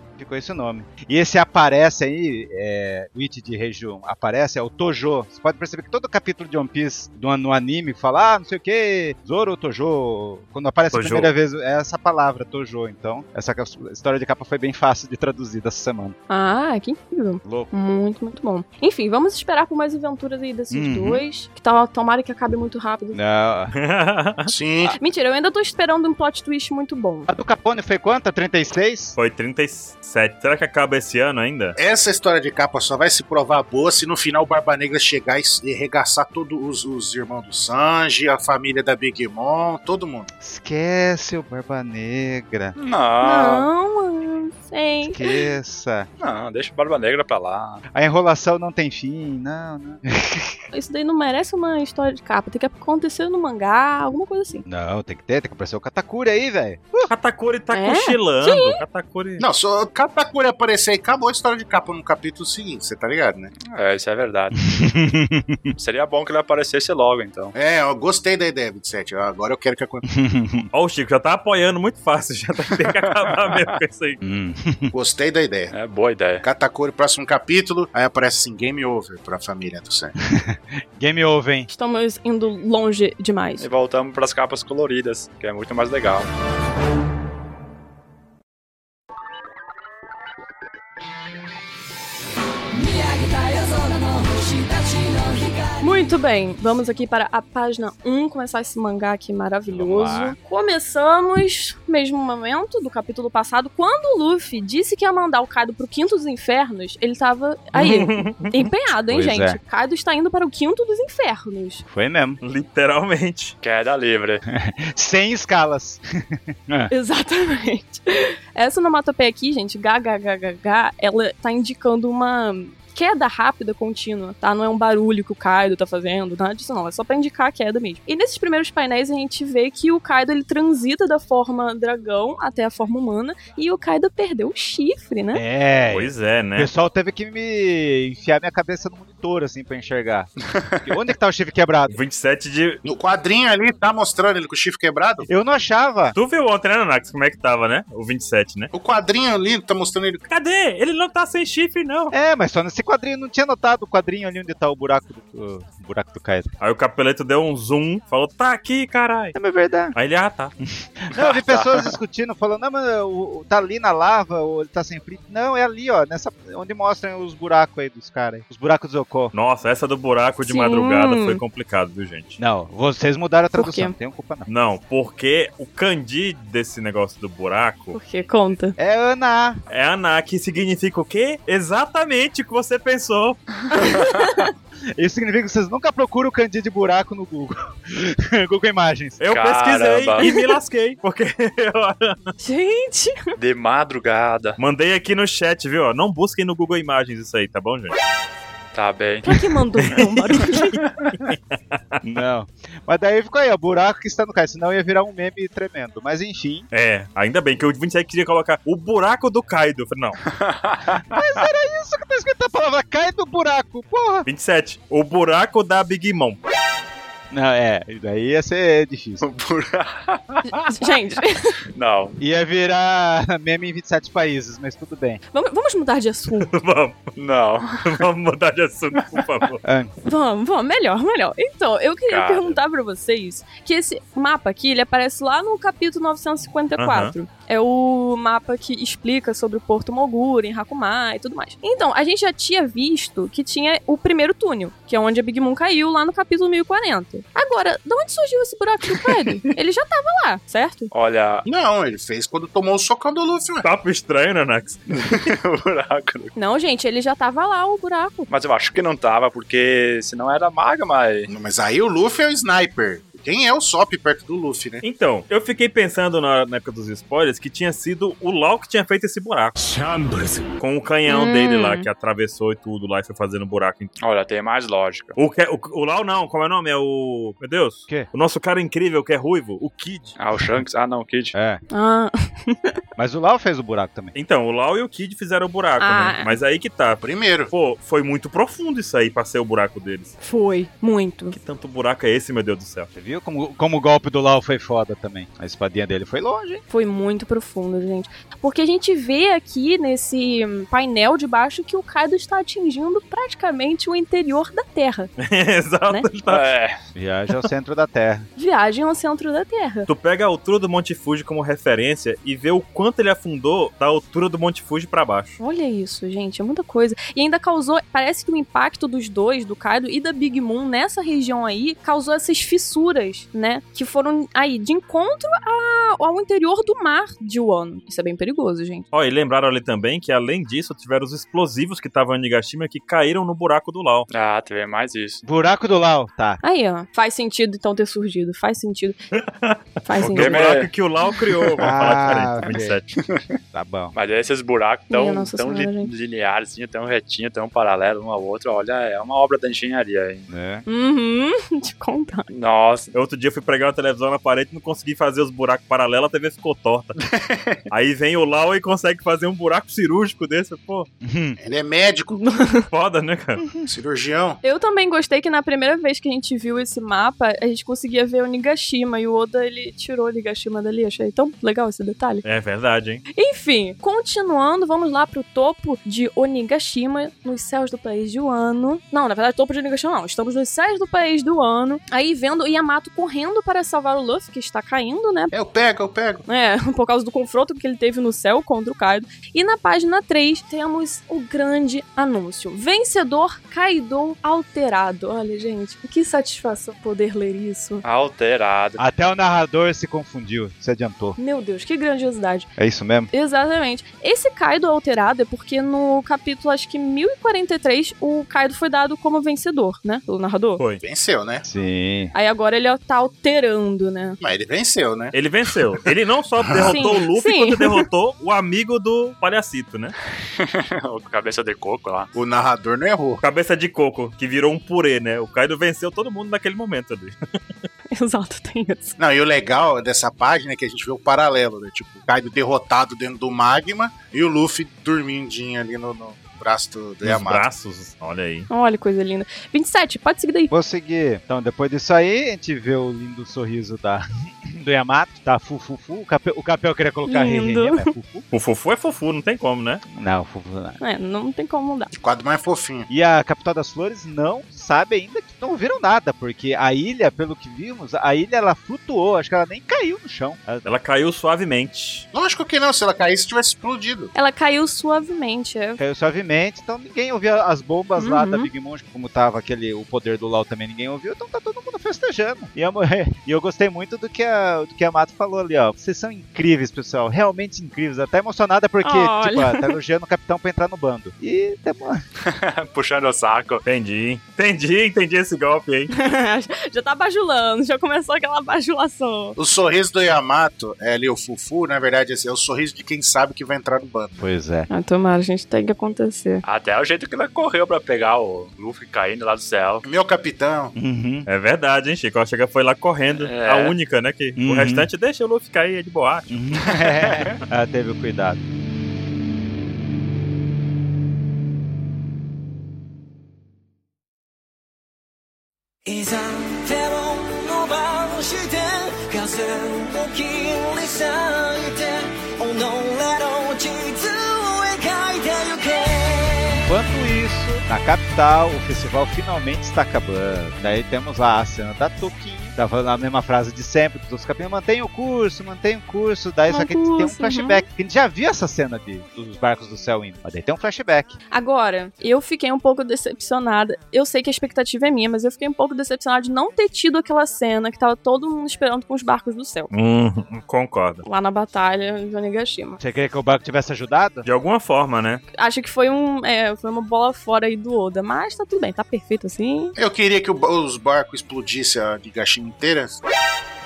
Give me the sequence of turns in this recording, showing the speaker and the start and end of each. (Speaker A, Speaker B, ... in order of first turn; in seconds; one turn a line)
Speaker A: 0.1-16.1
Speaker B: 10.9-11.3
Speaker C: 16.3-23.2
Speaker A: 17.4-17.7
Speaker A: 20.7-21.2
Speaker A: 23.1-23.8
Speaker B: 23.7-24.5
Speaker D: 24.5-24.9
Speaker C: 25.0-27.3
Speaker A: 27.3-29.1
Speaker B: 29.1-31.8
Speaker D: 31.8-40.3
Speaker A: 40.4-42.7
Speaker E: 42.8-43.7
Speaker C: 43.2-45.4
Speaker A: 45.0-46.1
Speaker E: 46.2-47.8
Speaker A: 47.9-50.5
Speaker C: 50.7-54.6
Speaker A: 54.6-57.1
Speaker B: 57.1-59.4
Speaker C: 57.7-58.8
Speaker D: 59.4-63.5
Speaker E: 63.6-64.6
Speaker A: 64.7-65.7
Speaker E: 65.8-67.5
Speaker D: 67.5-70.0
Speaker A: 70.1-70.7
Speaker B: 70.7-74.2
Speaker E: 72.9-73.7
Speaker A: 74.2-74.9
Speaker D: 74.9-75.7
Speaker E: 75.7-76.4
Speaker D: 76.4-80.1
Speaker A: 80.2-81.7
Speaker C: 81.7-83.7
Speaker E: 83.6-86.3
Speaker F: 92.7-95.8
Speaker C: 95.8-111.8
Speaker A: 99.7-100.4
Speaker B: 107.7-108.7
Speaker A: 109.1-109.6
Speaker A: 111.8-112.4
Speaker B: 112.4-113.5
Speaker E: 113.6-114.4
Speaker A: 114.5-116.9
Speaker C: 116.9-135.4
Speaker A: 135.3-141.9
Speaker B: 135.9-136.7
Speaker B: 141.9-142.8
Speaker D: 142.8-145.3
Speaker A: 145.2-146.2
Speaker B: 146.1-148.7
Speaker D: 148.7-150.2
Speaker B: 150.3-152.1
Speaker A: 152.1-156.5
Speaker B: 156.6-159.3
Speaker A: 159.3-159.9
Speaker B: 159.9-160.5
Speaker A: 161.0-169.3
Speaker E: 161.1-161.9
Speaker B: 169.3-172.4
Speaker C: 170.4-171.4
Speaker A: 172.4-174.5
Speaker C: 173.6-173.9
Speaker B: 174.5-178.0
Speaker C: 177.9-178.8
Speaker A: 178.8-179.6
Speaker B: 179.7-183.8
Speaker C: 183.7-184.5
Speaker A: 184.9-189.2
Speaker B: 189.2-192.3
Speaker E: 189.3-190.2
Speaker C: 190.2-190.5
Speaker C: 192.4-193.3
Speaker E: 193.3-194.6
Speaker B: 194.6-197.9
Speaker E: 198.7-199.4
Speaker C: 199.2-200.8
Speaker B: 199.8-202.0
Speaker A: 202.0-206.7
Speaker B: 206.7-210.2
Speaker E: 210.2-211.2
Speaker A: 211.1-214.2
Speaker B: 214.2-216.4
Speaker A: 217.3-219.3
Speaker E: 219.2-220.7
Speaker C: 220.6-221.6
Speaker E: 221.7-222.2
Speaker A: 222.2-225.2
Speaker C: 225.3-226.5
Speaker B: 226.4-227.1
Speaker E: 227.1-228.0
Speaker B: 227.8-229.6
Speaker A: 229.6-229.9
Speaker C: 230.1-250.9
Speaker E: 232.1-232.6
Speaker B: 236.8-237.1
Speaker E: 250.9-251.4
Speaker D: 251.4-253.7
Speaker B: 253.6-255.2
Speaker E: 254.9-256.3
Speaker C: 256.3-258.3
Speaker E: 258.3-261.3
Speaker D: 261.3-264.8
Speaker B: 264.8-269.6
Speaker B: 270.6-273.9
Speaker C: 271.1-271.9
Speaker E: 274.0-275.2
Speaker B: 275.1-280.1
Speaker E: 280.1-281.3
Speaker A: 281.3-281.6
Speaker C: 281.7-282.8
Speaker A: 283.0-284.1
Speaker B: 284.1-290.1
Speaker C: 285.8-286.4
Speaker D: 287.0-287.5
Speaker C: 290.2-291.4
Speaker B: 291.3-292.9
Speaker A: 292.9-296.6
Speaker C: 296.7-305.1
Speaker B: 305.2-306.4
Speaker E: 306.2-306.8
Speaker A: 306.9-308.3
Speaker C: 308.4-309.9
Speaker B: 309.9-315.4
Speaker C: 315.4-328.8
Speaker B: 328.9-334.1
Speaker E: 334.1-335.2
Speaker A: 335.2-336.4
Speaker C: 336.4-339.0
Speaker B: 339.1-342.9
Speaker C: 339.8-340.4
Speaker E: 340.0-340.7
Speaker A: 341.6-342.8
Speaker A: 343.5-343.9
Speaker E: 343.9-350.3
Speaker C: 344.9-345.9
Speaker A: 350.3-350.6
Speaker C: 350.7-352.3
Speaker E: 352.3-352.9
Speaker B: 352.9-357.0
Speaker B: 357.7-360.9
Speaker A: 361.0-361.4
Speaker D: 361.4-362.2
Speaker C: 362.2-362.7
Speaker B: 362.7-363.4
Speaker D: 363.6-364.4
Speaker C: 364.4-372.2
Speaker B: 372.2-373.0
Speaker C: 373.1-385.3
Speaker D: 385.3-386.2
Speaker C: 386.2-397.8
Speaker E: 397.8-398.8
Speaker A: 398.8-401.2
Speaker C: 401.2-402.5
Speaker A: 402.6-403.1
Speaker C: 403.1-410.6
Speaker D: 410.8-411.4
Speaker A: 411.4-412.1
Speaker C: 412.1-414.2
Speaker D: 414.2-415.1
Speaker B: 415.1-419.9
Speaker D: 416.4-416.9
Speaker C: 416.6-417.9
Speaker E: 420.4-422.1
Speaker D: 422.1-423.2
Speaker B: 423.2-427.1
Speaker C: 427.9-428.9
Speaker D: 429.0-437.4
Speaker B: 437.0-438.5
Speaker C: 438.5-440.5
Speaker A: 440.5-448.2
Speaker C: 447.1-447.9
Speaker B: 448.3-449.8
Speaker A: 449.9-450.8
Speaker C: 450.8-451.9
Speaker D: 451.9-452.9
Speaker A: 452.9-460.6
Speaker B: 460.6-462.1
Speaker D: 462.1-464.1
Speaker C: 464.1-465.8
Speaker A: 465.8-482.0
Speaker C: 468.0-468.5
Speaker C: 478.8-479.8
Speaker E: 482.2-483.6
Speaker B: 483.6-485.9
Speaker C: 485.9-489.4
Speaker D: 489.4-494.2
Speaker A: 494.2-494.7
Speaker C: 494.7-496.4
Speaker E: 496.4-499.8
Speaker D: 499.8-500.7
Speaker A: 500.7-501.3
Speaker B: 501.3-506.3
Speaker E: 503.1-503.8
Speaker A: 504.4-504.9
Speaker A: 506.3-508.4
Speaker E: 506.7-507.4
Speaker F: 515.9-526.7
Speaker A: 526.6-541.2
Speaker C: 536.5-537.6
Speaker C: 541.3-549.7
Speaker B: 549.7-551.0
Speaker C: 551.0-552.8
Speaker A: 552.8-554.2
Speaker B: 554.2-555.2
Speaker C: 555.3-559.7
Speaker D: 559.8-563.0